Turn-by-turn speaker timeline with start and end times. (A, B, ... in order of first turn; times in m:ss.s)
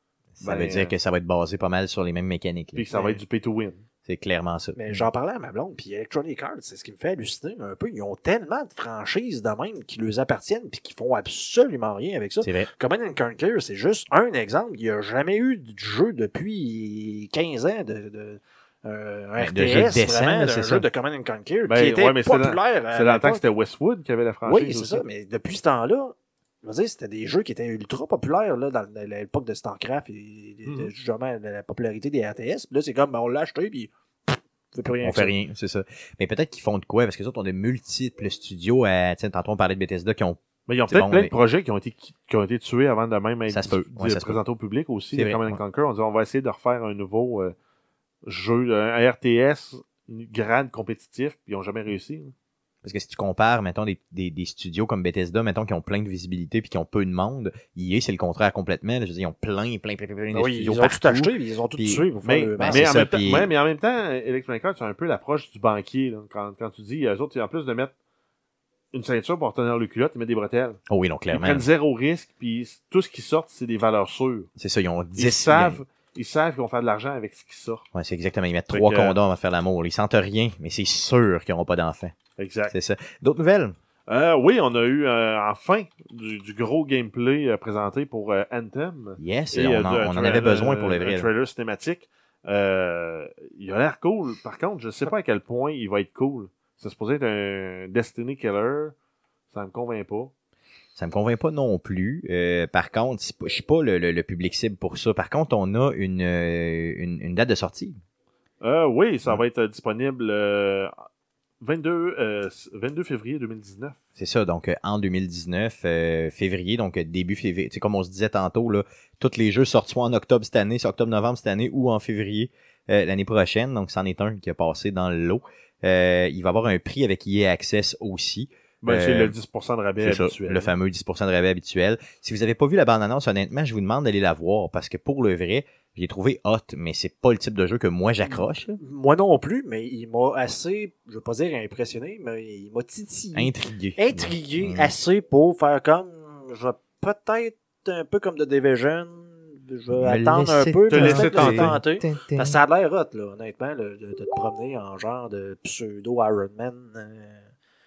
0:00.4-0:02.9 A
0:00.4-0:00.9 B
0:02.7-0:03.8 B
0:02.9-0:03.2 C
0:04.0-0:05.1 A
0:04.8-0:23.4 C
0:12.4-0:12.7 A
0:19.4-0:20.8 A
0:21.7-0:25.0 B
0:24.4-0:35.3 C
0:30.6-0:30.9 B
0:35.0-0:41.3 A
0:40.7-0:47.5 B
0:43.5-0:44.4 A
0:45.1-0:45.6 A
0:48.2-0:52.3 B
0:52.8-1:02.0 A
1:00.3-1:02.9 C
1:02.2-1:07.9 B
1:02.6-1:03.5 A
1:08.9-1:10.8 B
1:10.9-1:11.7 A
1:11.3-1:14.5 B
1:14.6-1:15.8 A
1:15.2-1:17.8 B
1:17.9-1:22.2 A
1:18.7-1:19.2 B
1:22.4-1:22.7 B
1:22.7-1:23.8 A
1:24.1-1:38.9 B
1:29.2-1:31.3 A
1:39.5-1:40.3 B
1:41.0-1:48.0 A
1:48.6-1:50.9 B
1:51.6-1:54.0 B
1:54.2-2:09.3 A
2:08.8-2:10.7 B
2:10.0-2:18.8 A
2:18.2-2:37.4 C
2:23.3-2:24.9 A
2:29.9-2:32.6 A
2:30.9-2:31.8 B